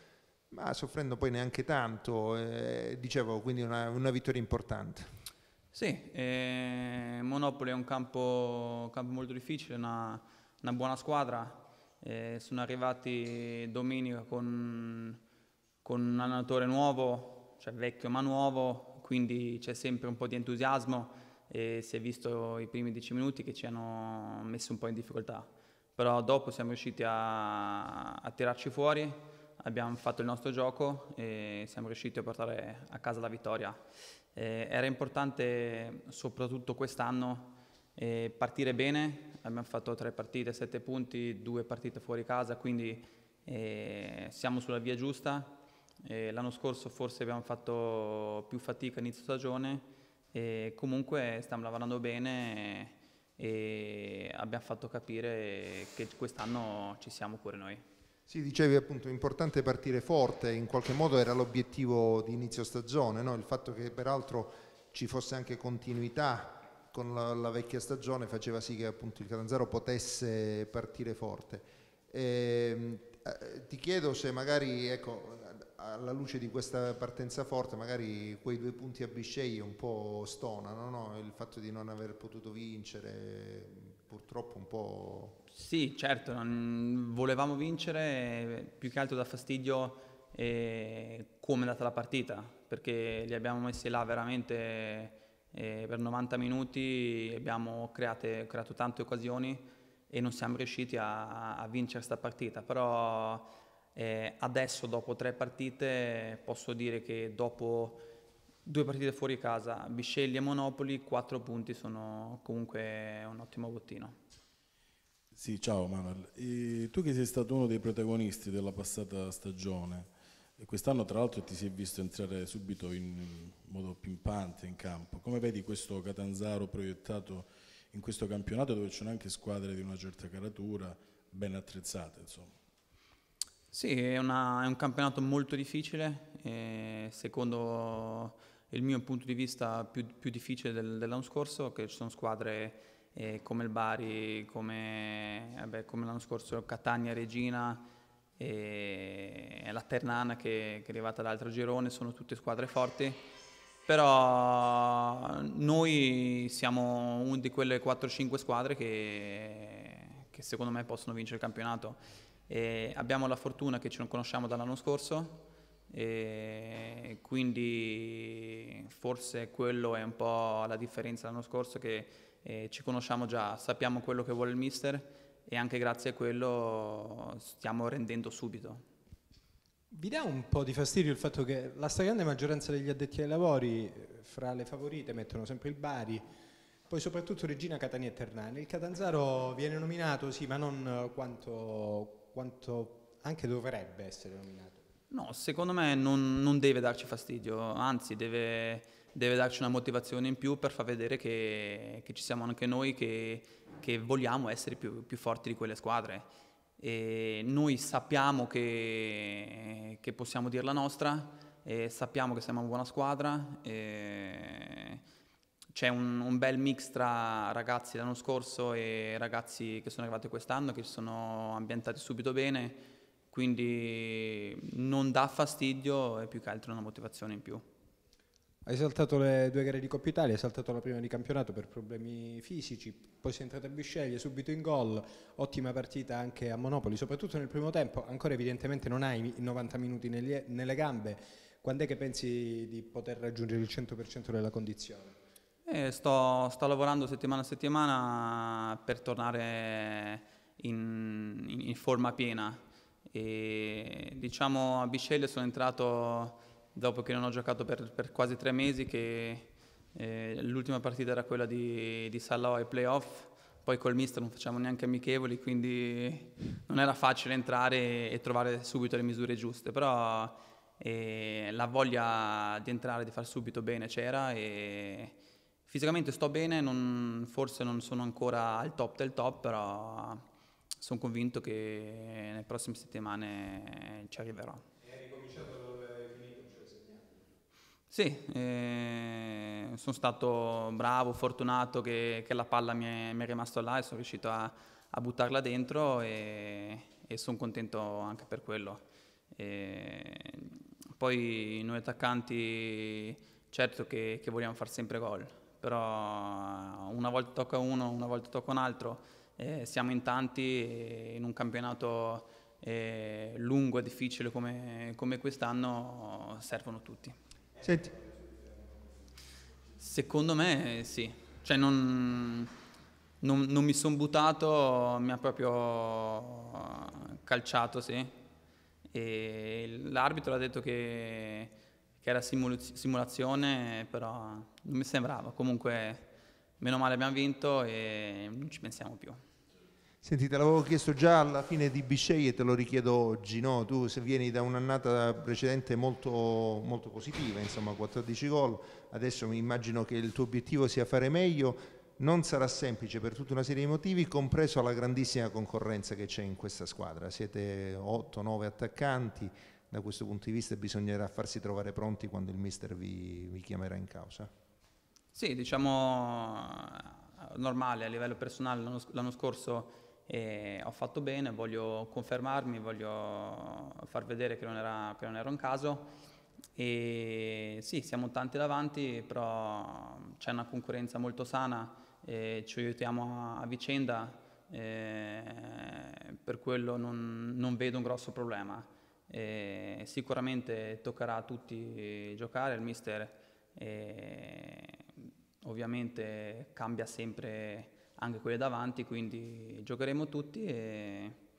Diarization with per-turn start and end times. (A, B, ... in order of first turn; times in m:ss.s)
0:00.5-0:05.1 A
0:05.7-0:15.2 B
0:15.8-0:33.8 B
0:34.3-0:57.8 B
0:58.3-1:25.4 A
1:25.5-1:48.0 B
1:48.6-1:54.2 B
1:55.3-2:12.5 C
2:13.7-2:27.9 B
2:28.4-2:33.3 B
2:33.9-2:58.8 B
2:59.9-3:06.2 D
3:06.9-3:14.8 D
3:15.1-3:26.3 B
3:26.8-3:35.0 B
3:35.7-3:47.6 B
3:48.6-4:05.2 D
4:05.7-4:35.2 B
4:35.7-4:40.2 B
4:40.8-4:44.6 B
4:44.8-4:47.2 D
4:47.9-4:58.8 B
4:59.3-5:17.1 B
5:17.6-5:17.9 A
5:18.0-5:18.8 D
5:19.8-5:22.5 B
5:23.2-5:28.1 B
5:28.9-5:36.1 B
5:36.6-5:39.2 B
5:40.0-6:04.3 A
6:05.1-6:15.9 B
6:16.6-6:34.9 B
6:35.4-6:41.2 B